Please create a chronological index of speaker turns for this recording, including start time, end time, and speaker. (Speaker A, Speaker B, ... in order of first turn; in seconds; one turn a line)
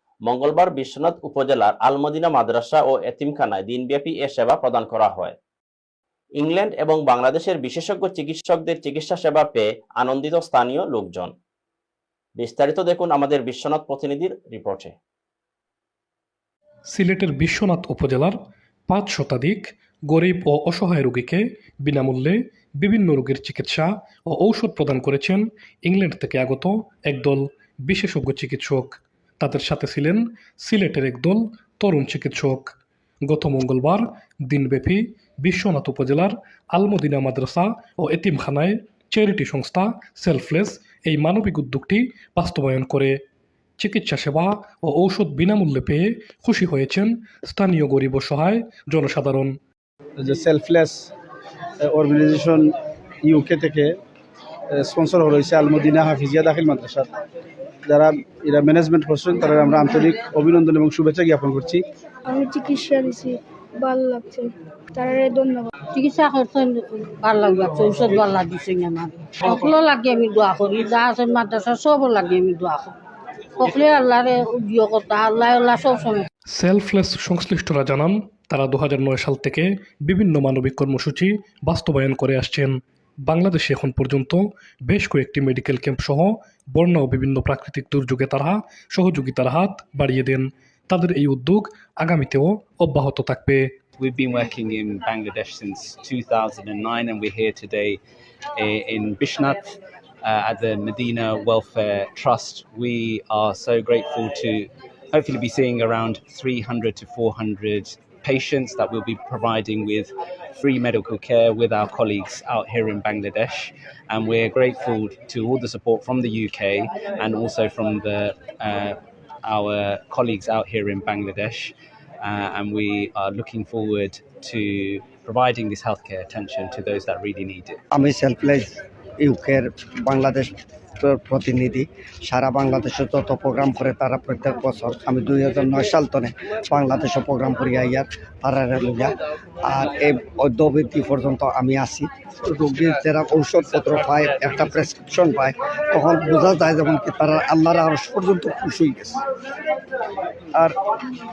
Speaker A: 0.3-5.3
Speaker A: 6.4-11.3
Speaker A: 12.4-14.9
Speaker B: 16.9-18.4
Speaker B: 18.9-43.2
Speaker B: 43.8-49.6
Speaker C: 50.2-51.1
Speaker C: 51.8-52.7
Speaker C: 53.2-53.9
Speaker C: 54.7-57.1
Speaker C: 57.9-61.8
Speaker D: 62.3-65.7
Speaker E: 66.0-72.9
Speaker E: 73.6-76.3
Speaker B: 76.5-93.7
Speaker F: 94.0-98.0
Speaker F: 98.6-127.8
Speaker G: 127.9-149.2